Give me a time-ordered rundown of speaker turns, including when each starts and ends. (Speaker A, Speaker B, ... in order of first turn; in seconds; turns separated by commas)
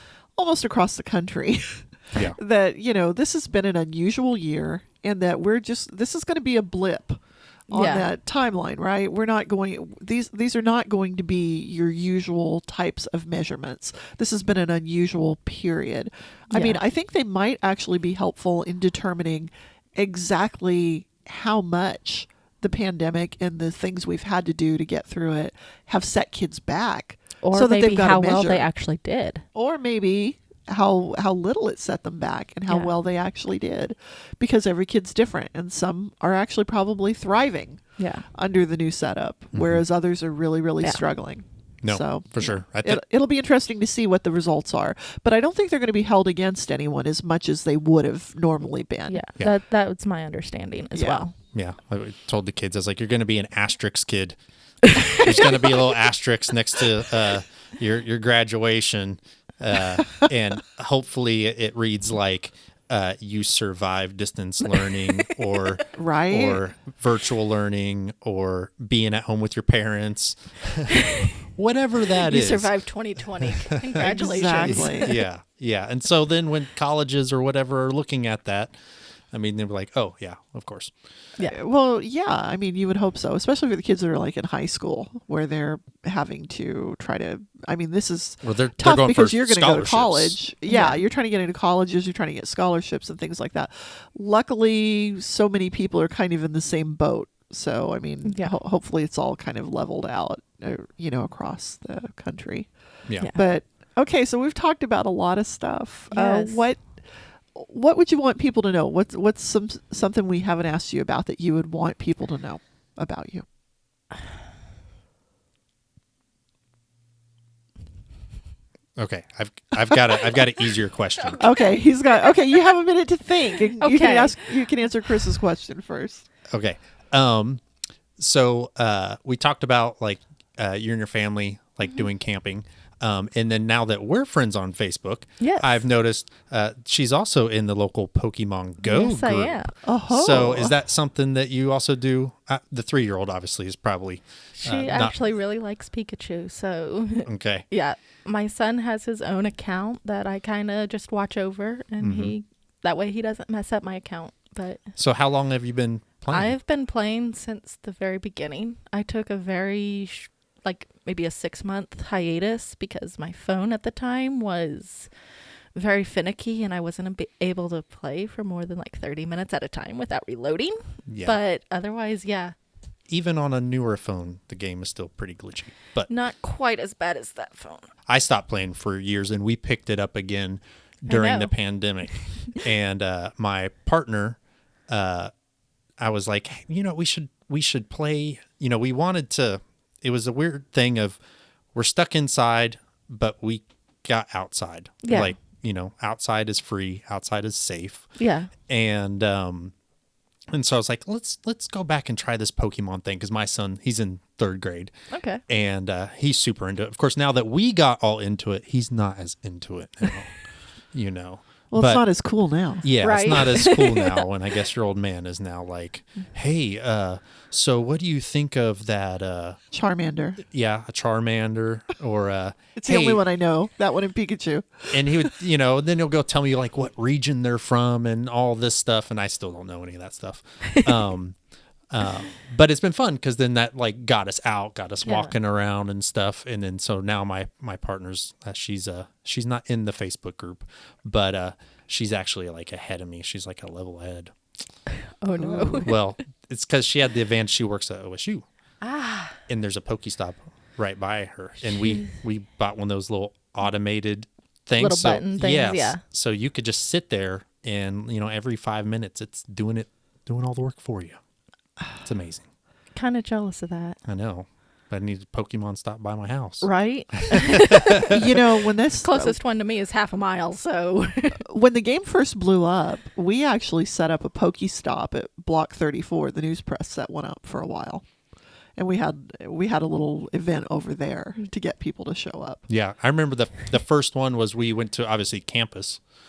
Speaker A: 0.3-28.6, Speaker B: 7.7-8.1, Speaker B: 16.5-16.8, Speaker B: 27.4-29.4, Speaker A: 29.5-37.8, Speaker B: 38.0-38.2, Speaker A: 38.3-49.2, Speaker C: 39.5-39.8, Speaker C: 41.8-43.0, Speaker B: 49.1-51.4, Speaker A: 50.9-51.2, Speaker C: 51.5-54.4, Speaker C: 55.0-72.7, Speaker B: 55.2-55.5, Speaker A: 65.9-66.6, Speaker B: 72.2-75.2, Speaker C: 73.4-74.0, Speaker A: 74.0-75.1, Speaker C: 74.6-78.7, Speaker C: 79.3-80.9, Speaker A: 81.4-102.7, Speaker C: 88.4-90.4, Speaker B: 90.7-91.0, Speaker B: 98.2-98.5, Speaker A: 103.3-107.0, Speaker B: 106.1-106.7, Speaker A: 107.5-113.4, Speaker C: 119.0-121.5, Speaker A: 121.4-126.3, Speaker B: 123.8-124.4, Speaker C: 126.5-127.6, Speaker C: 128.2-145.2, Speaker B: 135.4-135.8, Speaker B: 138.8-139.7, Speaker A: 139.8-140.7, Speaker B: 144.6-154.8, Speaker C: 147.2-147.6, Speaker C: 152.0-152.3, Speaker C: 155.0-156.6, Speaker B: 156.3-165.1, Speaker B: 165.7-172.5, Speaker C: 171.1-171.4, Speaker C: 173.1-176.1, Speaker B: 176.1-177.9, Speaker C: 178.1-185.3, Speaker B: 181.1-181.5, Speaker C: 186.0-191.2, Speaker C: 191.7-198.1, Speaker B: 195.0-195.3, Speaker B: 198.2-198.5, Speaker C: 198.7-199.7, Speaker C: 200.5-204.9, Speaker B: 205.1-205.4, Speaker C: 205.5-210.4, Speaker C: 210.9-212.0, Speaker A: 211.7-212.9, Speaker C: 212.8-219.6, Speaker B: 213.0-214.3, Speaker A: 219.7-220.4, Speaker C: 220.5-223.2, Speaker A: 222.7-225.3, Speaker C: 224.9-231.4, Speaker C: 231.9-244.3, Speaker B: 235.0-235.3, Speaker B: 245.2-246.0, Speaker C: 245.5-248.4, Speaker A: 245.5-245.8, Speaker B: 248.8-249.4, Speaker C: 249.5-261.2, Speaker B: 254.8-256.0, Speaker C: 262.0-262.5, Speaker B: 262.9-264.0, Speaker C: 264.0-266.7, Speaker B: 266.6-268.2, Speaker C: 267.3-268.1, Speaker A: 267.9-269.4, Speaker B: 269.0-271.4, Speaker A: 271.3-278.0, Speaker A: 278.8-282.6, Speaker C: 282.7-286.0